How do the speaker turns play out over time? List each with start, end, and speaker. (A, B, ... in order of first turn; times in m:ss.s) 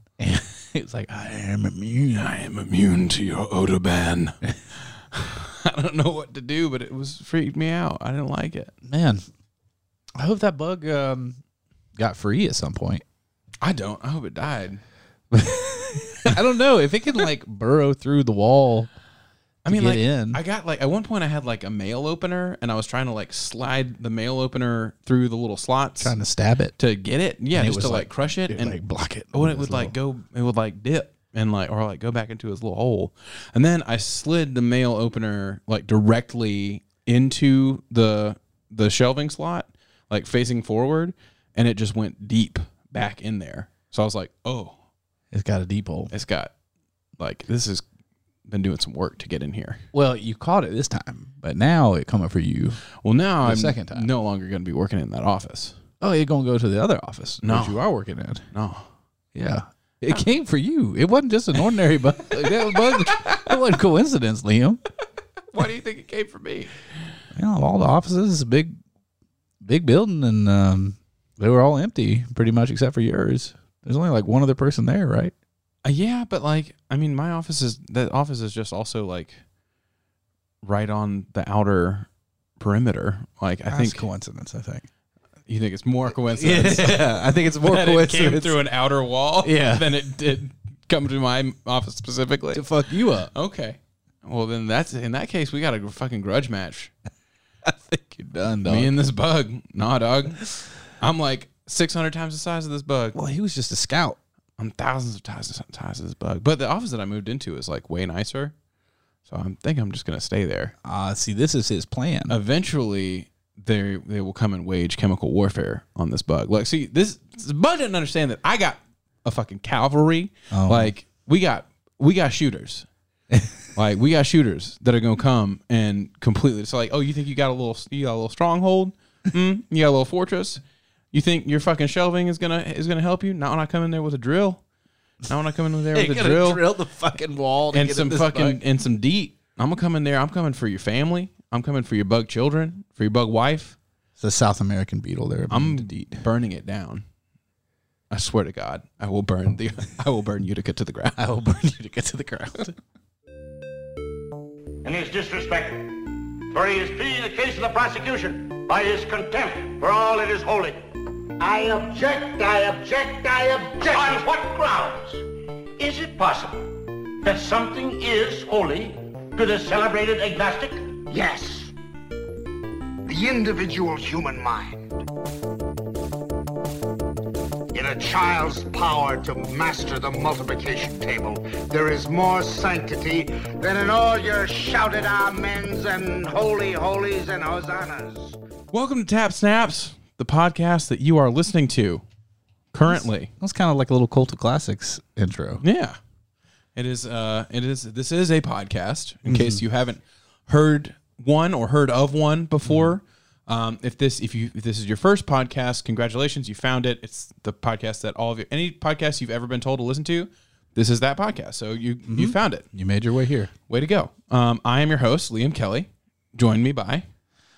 0:00.2-0:02.2 A
0:02.1-0:04.4 B
0:05.1-0:08.7 B
0:08.8-0:09.2 A
0:10.2-0:11.4 A
0:12.0-0:13.0 A
0:13.6-0:14.8 B
0:15.3-0:18.9 A
0:19.6-0:20.4 A
0:19.6-0:26.1 B
0:26.0-0:26.7 A
0:26.8-0:28.8 B
0:27.5-0:29.9 A
0:29.3-0:44.7 B
0:45.3-0:46.1 A
0:46.1-0:46.5 B
0:47.2-0:47.8 B
0:48.5-0:49.8 B
0:49.9-0:52.8 A
0:53.0-0:55.8 B
0:53.4-0:54.1 A
0:56.0-0:58.4 A
0:57.4-0:57.8 B
0:58.5-0:58.8 B
0:59.3-1:04.8 A
1:02.5-1:03.5 B
1:05.5-1:06.8 B
1:07.3-1:08.8 A
1:09.6-1:15.3 A
1:15.8-1:19.4 B
1:20.6-1:22.1 B
1:22.6-1:24.0 B
1:23.7-1:24.9 A
1:25.5-1:36.9 B
1:26.3-1:28.6 A
1:29.4-1:29.9 A
1:32.5-1:33.3 A
1:37.6-1:38.9 A
1:38.6-1:43.2 B
1:43.1-1:44.2 A
1:44.6-1:48.5 B
1:49.2-1:50.7 B
1:50.8-1:52.3 A
1:52.3-2:02.9 B
2:00.5-2:00.9 A
2:03.7-2:10.6 B
2:11.1-2:14.6 B
2:15.3-2:16.6 B
2:15.9-2:18.6 A
2:17.7-2:23.8 B
2:24.2-2:26.2 A
2:25.5-2:27.0 B
2:28.1-2:31.2 B
2:31.2-2:32.7 A
2:34.8-2:40.8 C
2:41.4-2:44.3 D
2:42.4-2:43.0 C
2:43.7-2:45.2 C
2:45.8-2:51.0 C
2:51.1-2:51.7 D
2:53.0-2:54.9 D
2:57.7-3:08.4 D
3:08.7-3:12.0 B
3:12.7-3:13.3 B
3:12.9-3:15.6 A
3:15.6-3:16.0 B
3:16.7-3:32.7 B
3:19.2-3:19.6 A
3:22.6-3:22.9 A
3:32.1-3:33.5 A
3:33.7-3:37.0 B